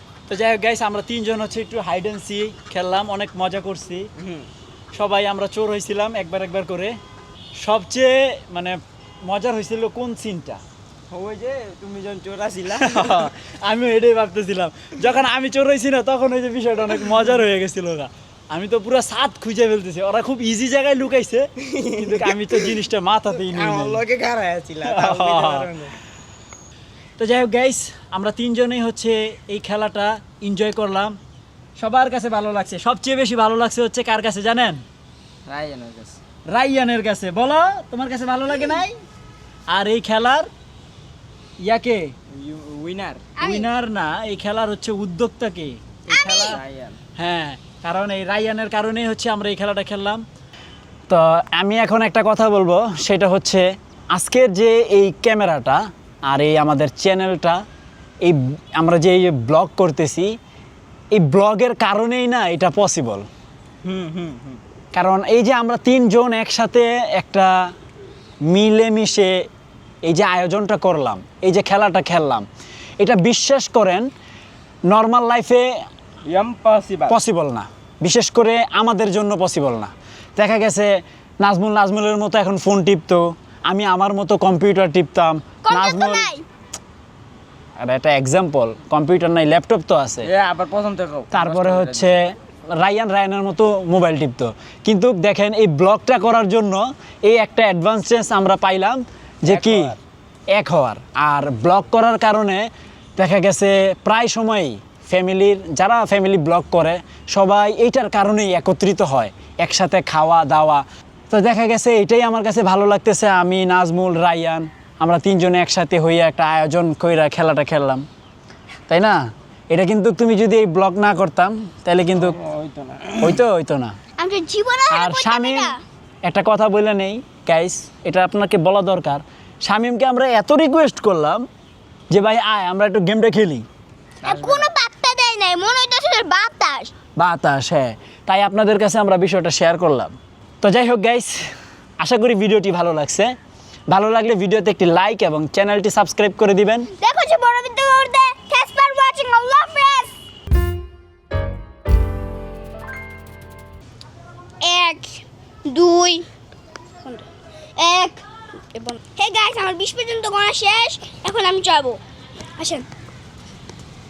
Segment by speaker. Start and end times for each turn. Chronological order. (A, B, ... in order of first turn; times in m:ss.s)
0:00.3-0:04.1 A
0:04.2-0:04.5 B
0:04.9-0:07.0 A
0:07.6-0:10.6 A
0:11.1-0:13.3 B
0:12.8-0:24.0 A
0:21.6-0:22.8 B
0:23.3-0:26.0 B
0:24.8-0:25.7 A
0:27.2-0:31.2 A
0:31.8-0:34.8 A
0:35.5-0:36.2 B
0:36.5-0:39.0 A
0:39.7-0:40.5 A
0:41.6-0:42.1 A
0:42.3-0:43.3 B
0:43.4-0:43.7 C
0:43.4-0:46.6 A
0:46.1-0:46.6 C
0:46.3-0:47.0 B
0:47.2-0:50.2 A
0:51.1-0:57.6 A
0:58.2-1:00.3 A
1:01.1-1:03.3 A
1:03.8-1:04.6 B
1:04.9-1:07.7 A
1:08.5-1:09.4 A
1:10.0-1:12.5 A
1:13.0-1:14.1 A
1:14.9-1:15.7 A
1:16.2-1:17.2 B
1:17.1-1:26.3 A
1:25.6-1:26.4 C
1:27.8-1:30.3 A
1:30.2-1:32.2 B
1:31.3-1:40.0 A
1:39.5-1:40.0 B
1:40.5-1:58.1 A
1:58.9-2:02.4 A
2:02.1-2:03.4 B
2:03.2-2:04.0 A
2:04.2-2:05.8 C
2:04.9-2:05.7 A
2:06.3-2:11.4 A
2:12.1-2:13.6 A
2:14.2-2:14.7 B
2:14.2-2:16.9 C
2:17.2-2:23.3 A
2:23.9-2:26.9 A
2:27.0-2:30.2 C
2:34.6-2:36.3 C
2:37.0-2:42.0 C
2:42.6-2:42.9 C